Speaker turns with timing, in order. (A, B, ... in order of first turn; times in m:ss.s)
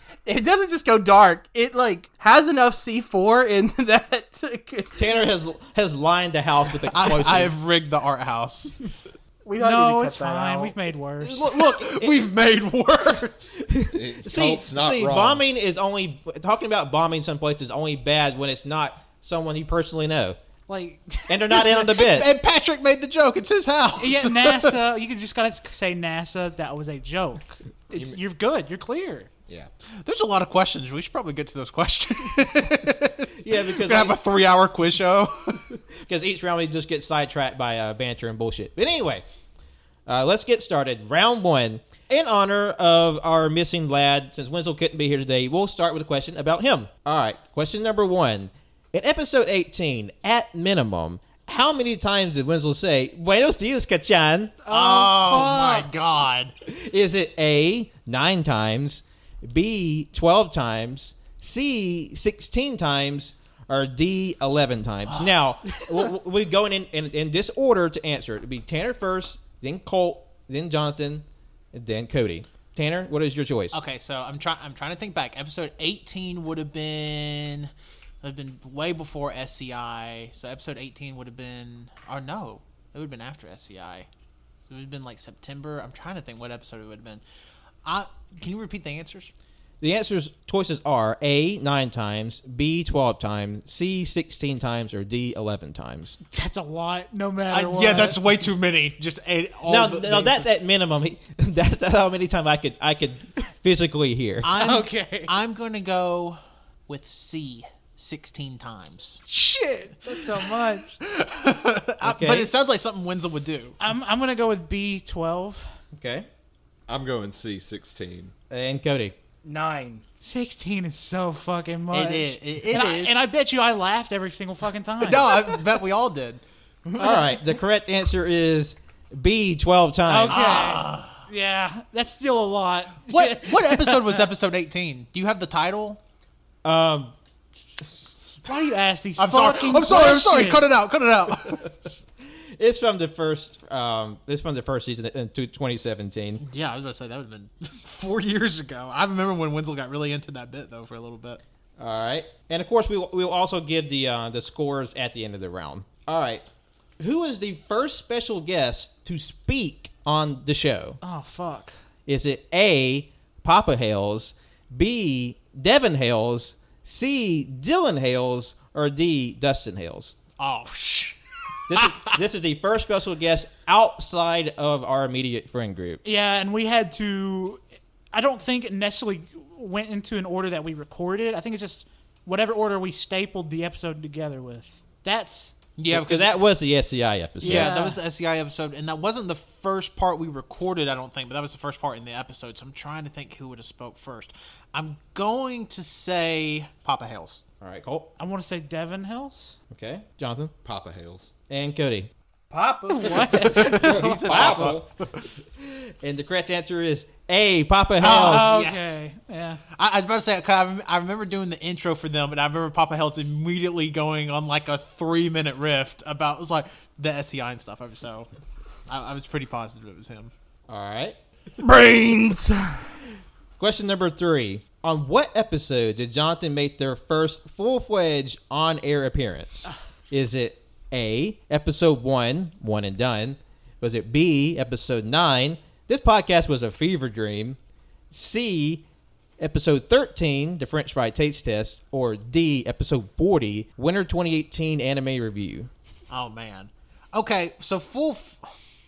0:00.2-0:05.0 A
0:05.0-0:07.5 B
0:06.9-0:08.7 C
0:09.4-0:10.7 A
0:09.6-0:11.4 D
0:11.2-0:12.3 B
0:11.3-0:13.6 C
0:13.6-0:20.4 B
0:13.9-0:15.4 E
0:20.7-0:21.6 D
0:21.3-0:22.3 B
0:21.9-0:24.8 C
0:24.0-0:29.3 D
0:27.9-0:28.2 E
0:30.0-0:35.6 C
0:33.4-0:34.2 B
0:36.0-0:39.2 B
0:40.0-0:54.6 B
0:54.6-0:55.9 D
0:54.7-0:56.5 C
0:56.7-1:13.8 B
1:13.7-1:17.7 C
1:18.2-1:24.1 C
1:24.7-1:27.2 C
1:27.8-1:29.3 C
1:29.8-1:36.2 B
1:36.3-1:38.2 D
1:37.5-1:40.5 C
1:39.6-1:44.5 B
1:44.4-1:49.2 C
1:44.6-1:45.3 D
1:49.2-1:51.0 D
1:51.0-1:53.8 C
1:52.0-1:52.5 B
1:53.8-1:55.7 D
1:55.9-1:56.3 B
1:56.9-1:58.3 E
1:58.5-1:59.2 B
1:59.4-2:00.0 A
2:00.2-2:05.6 D
2:01.9-2:03.3 C
2:05.0-2:06.4 C
2:07.0-2:10.4 B
2:10.1-2:14.2 D
2:10.3-2:11.2 C
2:13.1-2:16.0 C
2:16.6-2:17.1 B
2:18.4-2:20.7 D
2:19.2-2:21.7 C
2:22.6-2:26.4 B
2:26.4-2:31.4 C
2:31.8-2:36.4 B
2:37.0-2:41.0 B
2:41.0-2:41.7 D
2:42.1-2:50.1 B
2:50.4-2:51.2 C
2:51.7-2:56.0 B
2:51.7-2:52.1 C
2:56.0-2:57.6 D
2:58.1-3:05.5 D
3:05.8-3:06.4 C
3:05.9-3:07.8 B
3:07.4-3:08.0 D
3:07.4-3:17.4 C
3:17.6-3:18.1 B
3:18.2-3:19.6 D
3:19.7-3:20.5 B
3:20.6-3:21.3 E
3:21.5-3:22.1 B
3:22.5-3:23.5 A
3:22.9-3:24.2 D
3:23.4-3:25.2 C
3:23.6-3:24.9 E
3:24.3-3:24.8 B
3:25.6-3:28.5 B
3:28.0-3:29.0 C
3:28.0-3:29.6 D
3:29.7-3:38.3 C
3:38.9-3:40.3 C
3:40.7-3:41.2 B
3:41.6-3:42.8 A
3:43.6-3:57.6 B
3:58.1-3:58.8 B
3:59.4-4:05.7 B
4:06.1-4:08.4 C